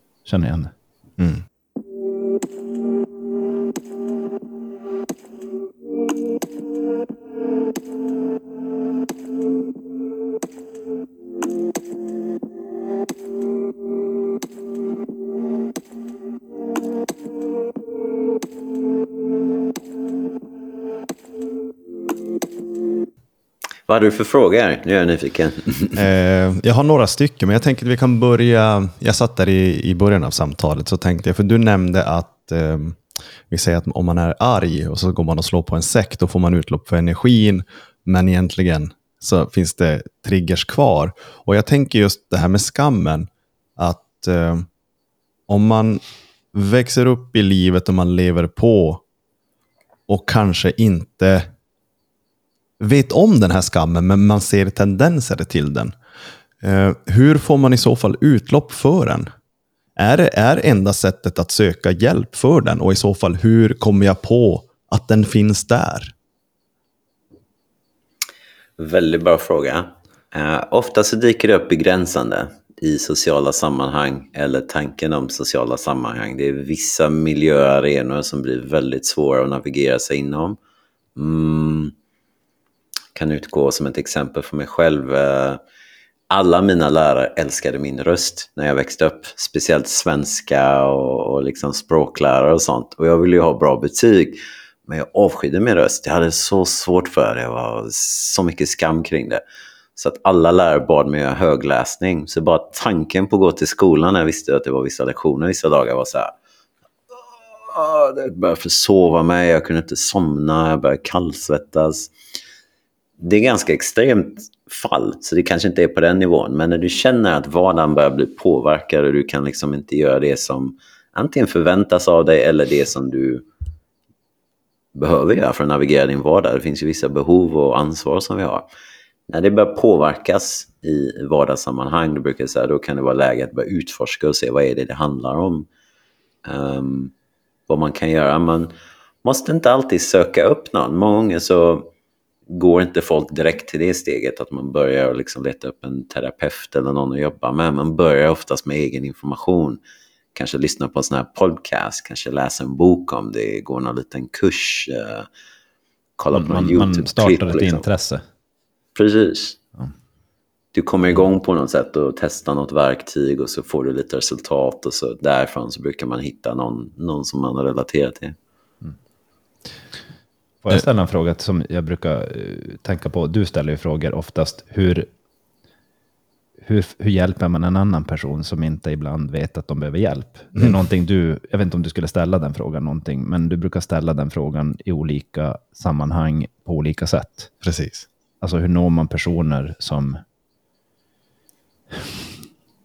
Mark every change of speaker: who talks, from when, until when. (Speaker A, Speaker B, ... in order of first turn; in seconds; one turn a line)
Speaker A: 0.3-0.7
Speaker B: 23.9-26.0
Speaker C: 26.0-44.7
Speaker C: 45.5-46.0
Speaker C: 46.5-49.0
Speaker C: 50.1-51.5
Speaker C: 52.8-55.9
Speaker C: 56.6-59.3
Speaker C: 60.0-66.1
Speaker B: 68.8-80.6
Speaker B: 81.2-81.9
Speaker B: 83.2-85.6
Speaker B: 86.3-99.4
Speaker B: 100.0-106.3
Speaker B: 107.1-112.1
Speaker B: 113.2-123.4
Speaker B: 125.0-128.7
Speaker B: 129.3-135.7
Speaker B: 136.4-137.1
Speaker B: 137.7-138.7
Speaker B: 139.2-141.9
Speaker B: 142.5-149.8
Speaker B: 150.3-155.3
Speaker B: 156.2-157.9
Speaker A: 156.3-158.2
Speaker B: 158.9-159.6
Speaker B: 160.7-168.4
Speaker A: 170.6-175.1
Speaker A: 176.6-187.5
Speaker C: 187.6-188.1
Speaker A: 188.4-190.2
Speaker A: 191.9-192.2